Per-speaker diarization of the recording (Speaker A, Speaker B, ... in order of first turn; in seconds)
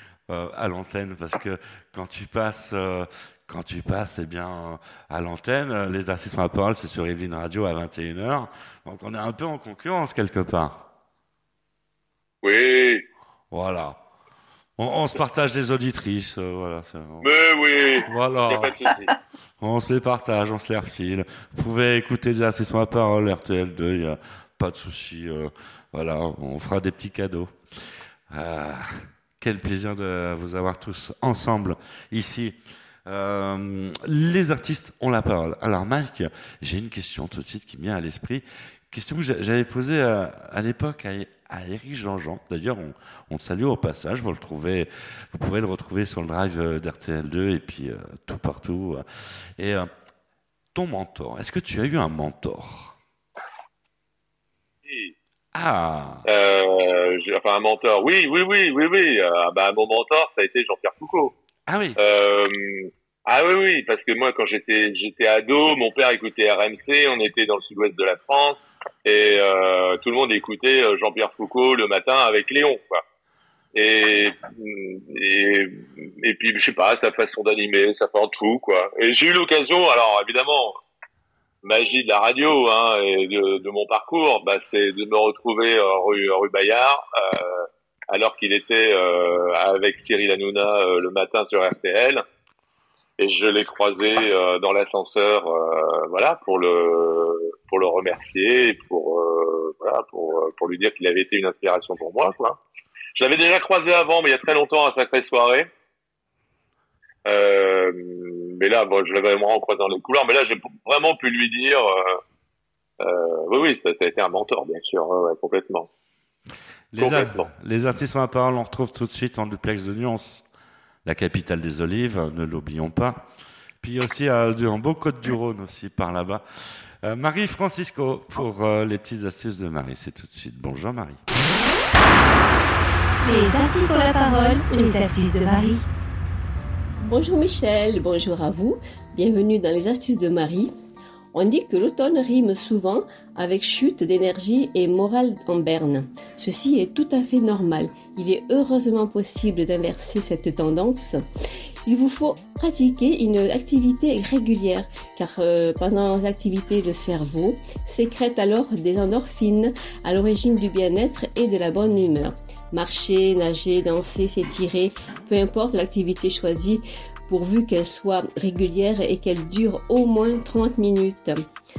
Speaker A: 0.3-10.8, 13.5-14.0, 14.8-17.4, 18.0-18.7, 19.6-27.5, 28.3-49.0, 49.6-49.9, 50.7-53.0, 55.5-56.2, 61.7-62.0, 116.9-120.4, 121.0-123.2, 123.8-126.4, 127.0-131.2
Speaker B: 12.4-13.1, 17.2-19.1, 54.8-55.1, 56.2-61.3, 62.0-73.0, 73.7-80.8, 81.6-92.2, 93.2-102.6, 103.1-105.7, 107.2-112.2, 113.0-115.9, 117.0-117.5
Speaker C: 133.2-135.8
Speaker D: 137.0-140.7, 141.3-151.2, 151.8-171.4